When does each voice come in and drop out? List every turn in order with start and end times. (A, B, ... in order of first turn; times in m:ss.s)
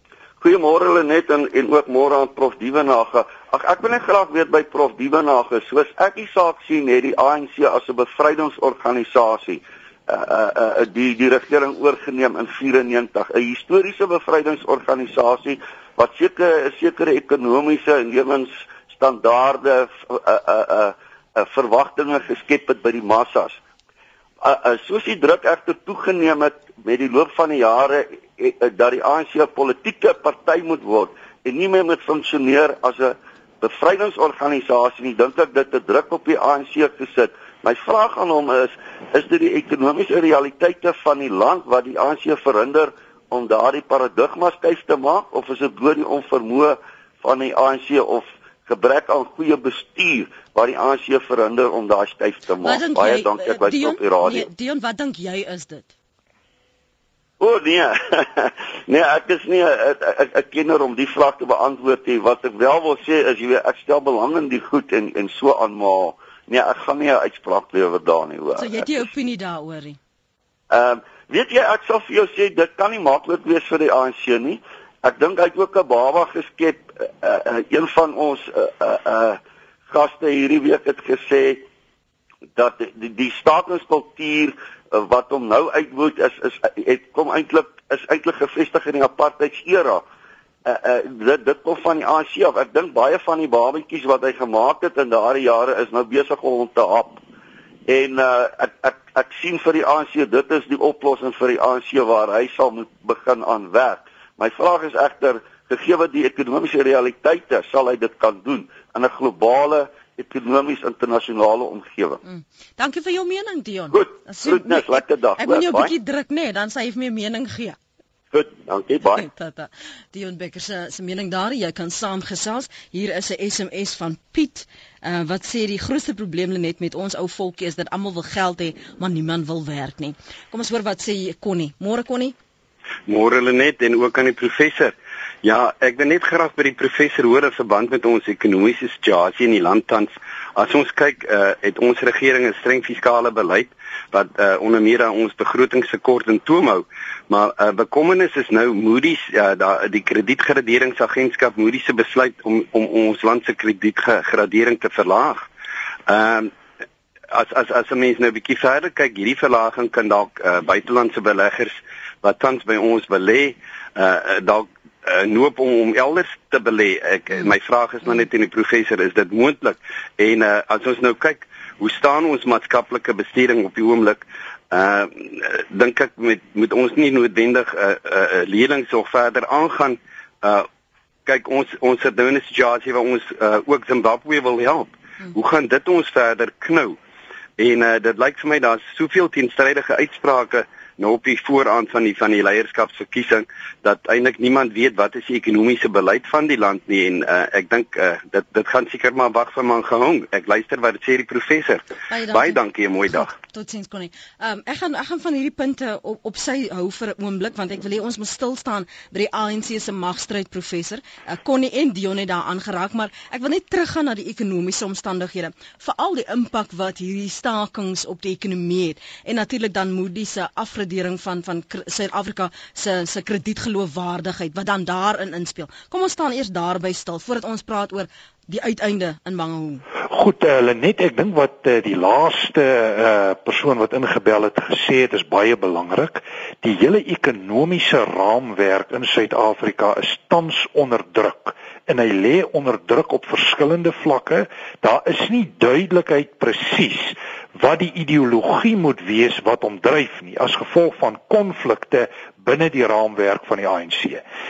0:00.4-0:23.6 A
0:24.4-0:54.5 A
0:52.6-0:55.9 B
0:57.4-1:09.0 A
1:08.6-1:10.0 B
1:10.7-1:21.7 A
1:22.6-1:30.0 A
1:30.6-1:37.2 A
1:37.9-1:52.2 A
1:52.2-1:57.8 B
1:53.9-1:55.9 A
1:58.3-1:59.3 A
1:59.1-2:12.4 B
2:13.1-2:35.5 C
2:36.1-2:36.5 C
2:37.3-3:00.7 C
3:01.3-3:07.0 C
3:07.6-3:23.3 C
3:22.1-3:22.6 B
3:23.3-3:49.8 B
3:50.1-4:14.2 D